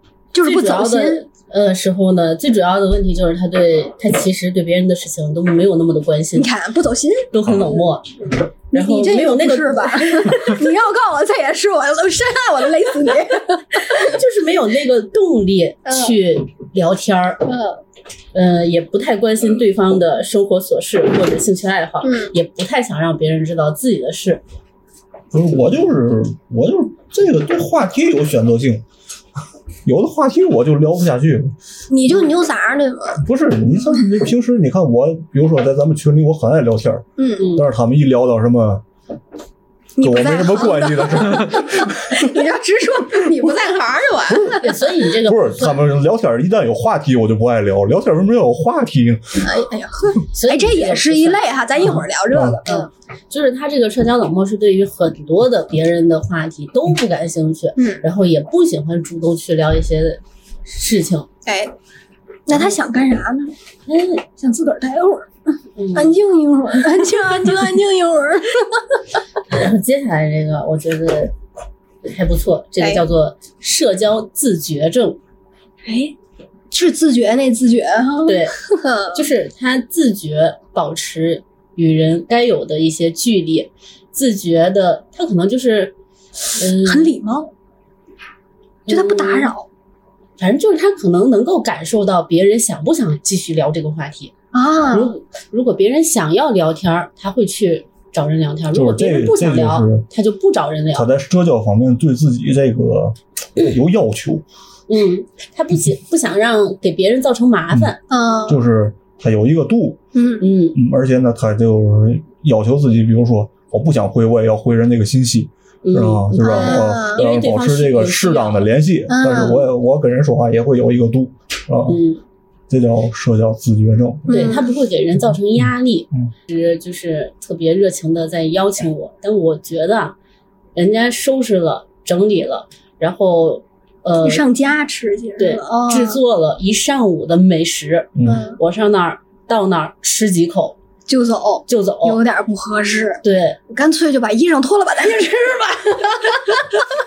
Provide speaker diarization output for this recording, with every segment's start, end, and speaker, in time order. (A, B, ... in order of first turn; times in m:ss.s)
0:00.3-0:01.2 A
0:00.4-0:06.5 B
0:06.4-0:07.8 A
0:07.3-0:08.1 B
0:08.7-0:10.6 B
0:08.7-0:14.1 A
0:14.0-0:17.5 B
0:15.9-0:16.2 A
0:17.5-0:17.8 A
0:18.3-0:24.4 B
0:22.0-0:22.3 A
0:25.3-0:28.8 C
0:29.8-0:31.6 C
0:31.9-0:33.2 A
0:33.2-0:38.8 C
0:37.2-0:37.5 A
0:37.4-0:37.7 B
0:40.0-0:44.7 A
0:40.0-0:42.3 C
0:44.3-0:44.6 C
0:44.6-0:45.9 B
0:45.2-0:49.4 C
0:49.4-0:52.9 A
0:50.3-0:51.5 B
0:52.3-0:52.6 C
0:52.7-1:01.3 B
0:57.8-0:58.0 A
1:01.5-1:01.7 A
1:02.5-1:03.5 A
1:03.9-1:04.2 B
1:04.4-1:05.3 A
1:05.8-1:06.2 B
1:05.9-1:09.0 A
1:09.5-1:11.3 B
1:12.0-1:15.2 B
1:12.8-1:13.0 A
1:15.8-1:16.2 A
1:16.7-1:19.2 A
1:18.3-1:18.6 B
1:19.1-1:26.0 B
1:26.6-1:27.1 B
1:26.8-1:27.5 A
1:28.9-1:29.5 B
1:28.9-1:29.7 A
1:30.4-1:34.3 B
1:34.5-1:35.1 A
1:34.9-1:41.1 B
1:38.7-1:40.1 C
1:40.9-1:44.4 C
1:44.9-1:48.0 B
1:48.1-1:48.6 A
1:48.5-1:50.0 C
1:50.2-1:50.5 A
1:50.4-1:50.8 B
1:50.7-2:02.0 C
1:55.8-1:58.7 B
1:56.5-1:57.2 A
1:59.1-1:59.6 A
2:01.9-2:02.2 B
2:02.7-2:04.6 C
2:04.3-2:10.2 B
2:04.3-2:04.7 A
2:10.8-2:14.4 B
2:14.2-2:16.2 A
2:15.4-2:20.8 B
2:18.2-2:18.5 C
2:18.2-2:18.6 A
2:21.1-2:26.8 A
2:21.7-2:22.2 B
2:23.2-2:23.6 B